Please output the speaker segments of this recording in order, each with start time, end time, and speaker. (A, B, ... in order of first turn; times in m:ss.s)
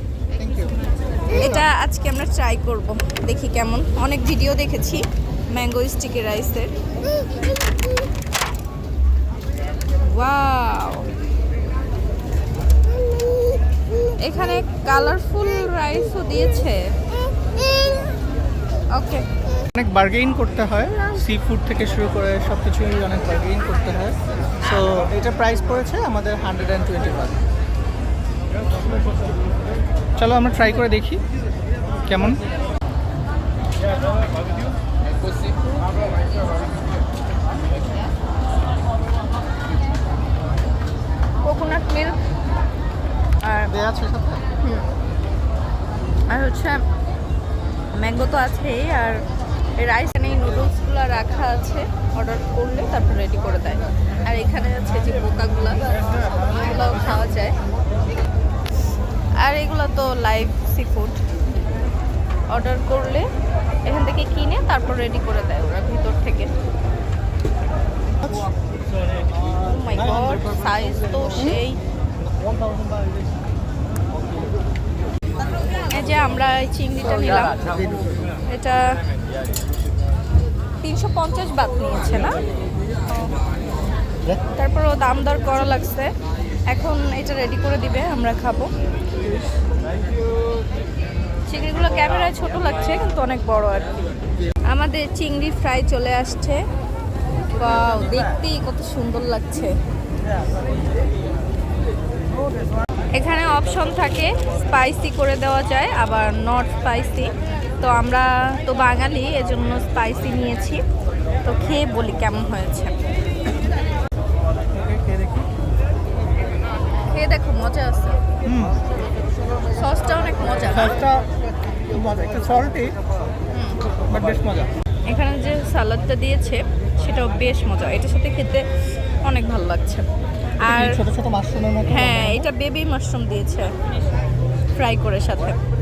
0:00.3-0:01.7 A
0:01.3-0:06.7 B
0:10.0-0:11.1 B
0:14.2-0:16.8 B
0:18.9-0:19.2 B
0:19.7-0:27.4 A
0:30.2-0:31.2 A
0:32.1-0:32.4 A
0:41.4-0:42.2 B
0:43.4-0:43.7 B
0:43.7-0:44.4 A
0:46.3-0:46.8 B
0:47.9-0:49.2 B
0:49.8-0:57.5 B
0:59.4-1:01.2 B
1:02.5-1:03.2 B
1:03.8-1:06.5 B
1:09.5-1:11.8 B
1:15.9-1:17.9 B
1:18.5-1:18.8 B
1:20.8-1:22.4 B
1:23.1-1:23.3 B
1:24.5-1:26.1 B
1:26.7-1:28.7 B
1:31.5-1:34.0 B
1:34.7-1:36.6 B
1:37.6-1:39.7 B
1:43.2-1:50.8 B
1:51.4-1:52.9 B
1:54.8-1:55.5 A
1:57.1-1:58.2 B
1:58.4-1:58.8 A
1:59.7-2:01.0 B
2:00.7-2:03.0 A
2:03.5-2:03.8 B
2:04.1-2:04.7 A
2:05.1-2:08.7 B
2:09.2-2:10.0 B
2:10.6-2:11.0 B
2:10.6-2:12.5 A
2:11.8-2:13.7 B
2:14.7-2:15.6 B